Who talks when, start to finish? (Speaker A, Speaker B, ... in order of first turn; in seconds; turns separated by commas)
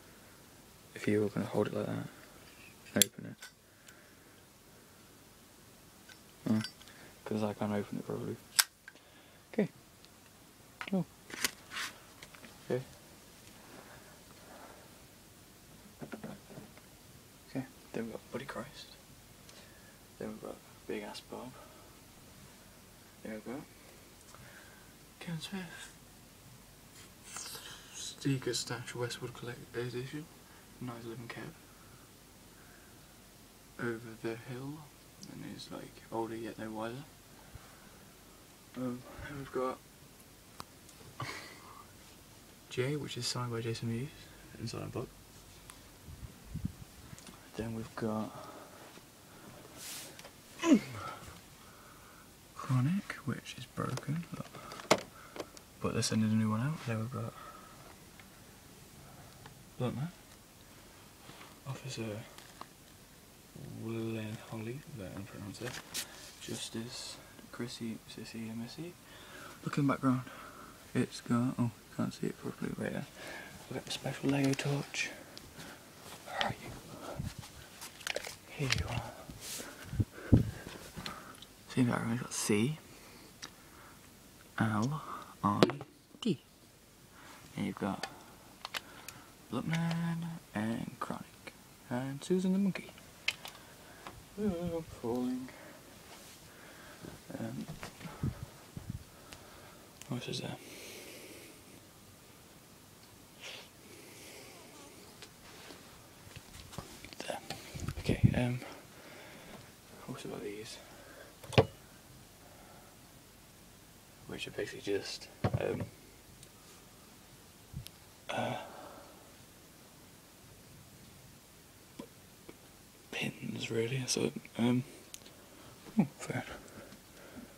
Speaker A: 0.9-3.4, Speaker A: 6.4-9.8, Speaker A: 10.9-11.5, Speaker A: 12.7-12.9, Speaker A: 17.5-19.2, Speaker A: 20.1-22.0, Speaker A: 23.2-24.3, Speaker A: 25.2-26.0, Speaker A: 27.4-31.7, Speaker A: 33.8-37.4, Speaker A: 38.7-39.8, Speaker A: 42.7-45.1, Speaker A: 47.4-48.9, Speaker A: 52.5-55.1, Speaker A: 55.8-57.9, Speaker A: 59.8-60.2, Speaker A: 61.6-62.7, Speaker A: 63.5-75.5, Speaker A: 76.2-77.2, Speaker A: 78.5-79.6, Speaker A: 81.7-83.1, Speaker A: 84.6-86.5, Speaker A: 87.5-88.6, Speaker A: 89.5-93.3, Speaker A: 94.3-95.8, Speaker A: 97.3-98.2, Speaker A: 100.1-101.1, Speaker A: 107.2-109.4, Speaker A: 110.0-111.3, Speaker A: 114.2-116.2, Speaker A: 118.3-119.0, Speaker A: 123.1-127.1